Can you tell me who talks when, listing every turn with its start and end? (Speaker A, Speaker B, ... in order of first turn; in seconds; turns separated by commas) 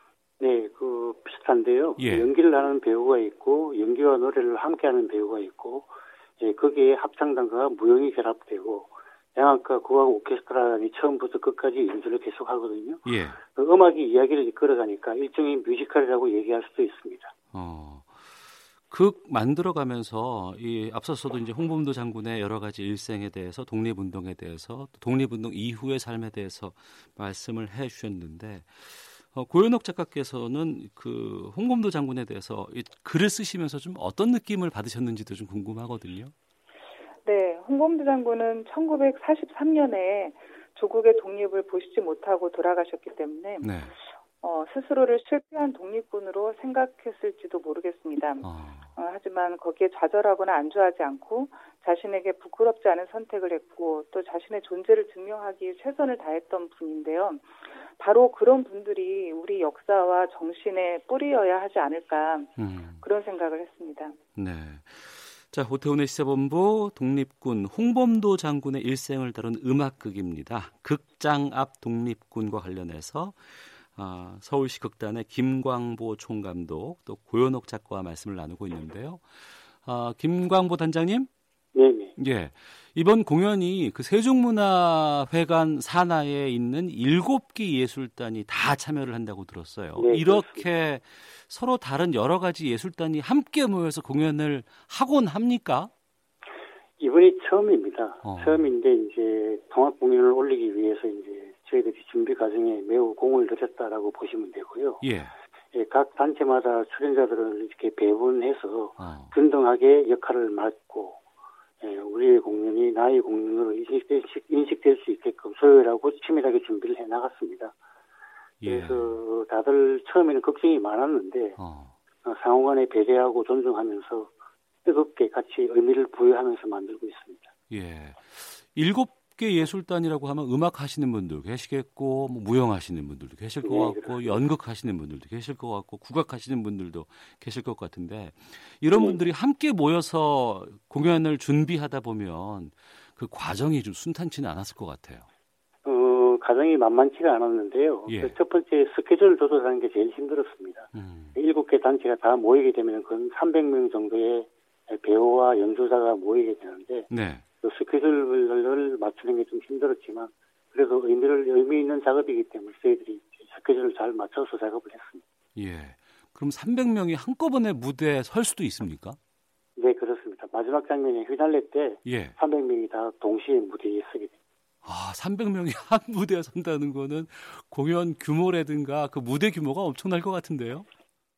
Speaker A: 0.4-17.3, Speaker B: 2.0-2.3, Speaker B: 13.1-13.4, Speaker B: 17.5-18.3, Speaker B: 18.9-36.3, Speaker C: 37.2-43.7, Speaker B: 43.6-43.9, Speaker C: 44.4-62.5, Speaker B: 48.4-48.9, Speaker B: 62.6-63.0, Speaker C: 63.0-64.2, Speaker B: 64.4-81.3, Speaker A: 81.8-82.2, Speaker B: 82.2-95.9, Speaker A: 90.0-90.7, Speaker A: 97.0-105.0, Speaker B: 98.2-98.7, Speaker B: 105.0-105.3, Speaker A: 105.7-111.2, Speaker B: 109.0-109.3, Speaker A: 111.8-117.7, Speaker B: 118.6-119.2, Speaker A: 118.6-121.6, Speaker B: 121.6-121.9, Speaker A: 122.2-124.3, Speaker A: 124.9-127.5, Speaker B: 127.7-145.3, Speaker A: 133.6-134.4, Speaker A: 138.9-139.2, Speaker A: 145.8-157.1, Speaker B: 148.1-148.3, Speaker B: 150.9-151.4, Speaker B: 157.1-157.4, Speaker A: 157.6-165.2, Speaker B: 165.6-169.2, Speaker A: 169.8-174.4, Speaker B: 172.1-172.4, Speaker B: 174.8-180.9